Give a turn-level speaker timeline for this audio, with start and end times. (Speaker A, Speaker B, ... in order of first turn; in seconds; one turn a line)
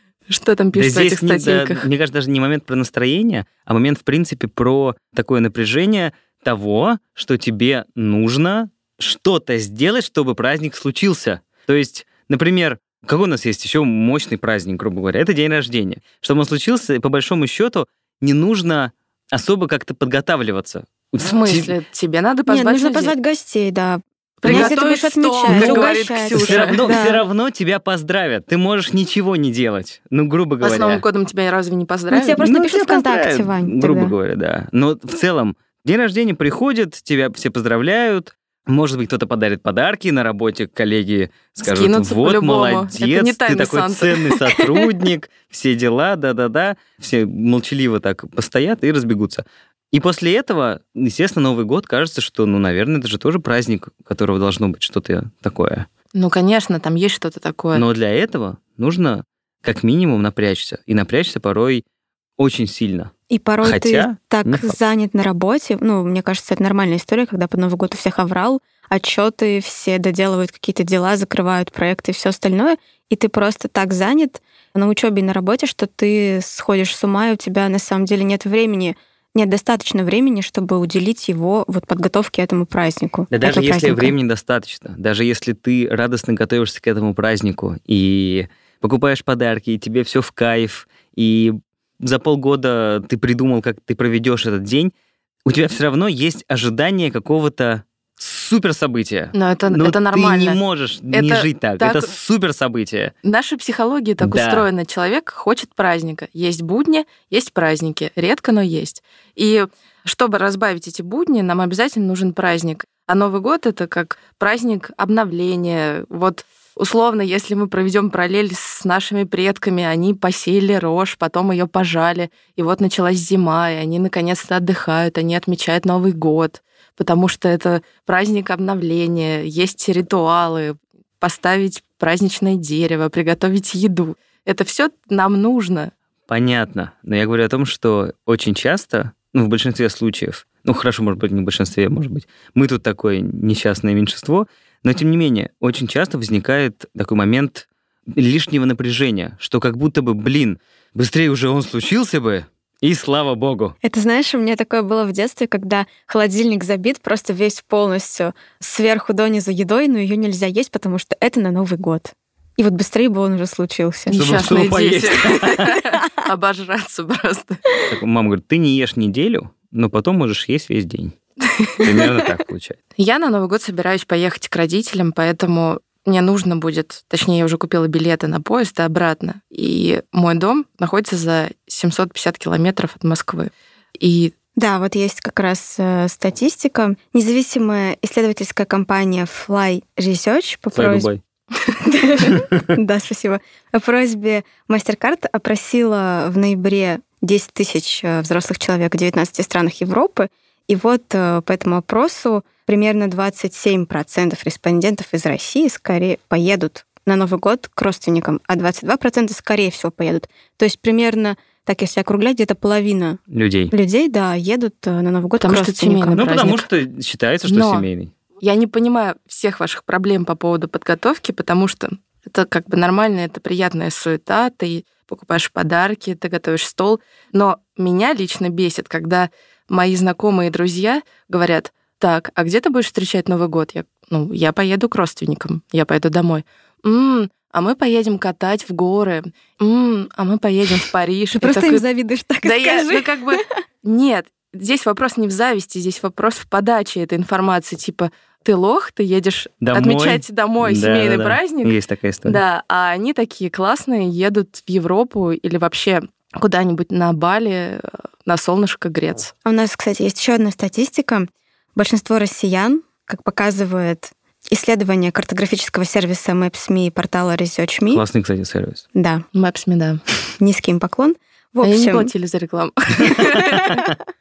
Speaker A: 0.3-1.9
Speaker B: 0.7-21.7
Speaker A: 21.2-23.1
Speaker C: 22.5-27.2
Speaker A: 24.4-26.8
Speaker B: 24.5-24.7
Speaker B: 25.5-31.0
Speaker A: 30.6-32.4
Speaker C: 32.1-34.1
Speaker B: 32.4-55.9
Speaker A: 41.6-44.6
Speaker A: 56.1-57.9
Speaker B: 57.7-61.8
Speaker B: 62.4-64.8
Speaker C: 63.3-84.2
Speaker B: 83.3-94.9
Speaker B: 95.5-103.1
Speaker A: 99.3-100.6
Speaker A: 101.1-102.1
Speaker A: 103.2-135.9
Speaker B: 104.2-104.7
Speaker B: 136.3-153.8
Speaker C: 153.8-164.4
Speaker A: 164.1-167.6
Speaker B: 164.1-165.7
Speaker B: 167.9-171.2
Speaker A: 171.6-171.8
Speaker B: 171.8-172.8
Speaker A: 173.0-184.3
Speaker C: 184.6-191.1
Speaker B: 190.7-191.2
Speaker C: 191.8-216.5
Speaker B: 192.3-192.6
Speaker B: 213.3-213.7
Speaker A: 215.4-216.7
Speaker B: 216.2-218.1
Speaker A: 217.5-217.9
Speaker A: 218.4-241.8
Speaker C: 241.3-243.5
Speaker A: 242.4-259.3
Speaker B: 249.6-252.4
Speaker C: 259.4-268.0
Speaker B: 267.9-268.9
Speaker C: 268.9-269.2
Speaker A: 269.3-270.0
Speaker C: 270.4-272.1
Speaker A: 271.6-273.8
Speaker B: 273.6-273.9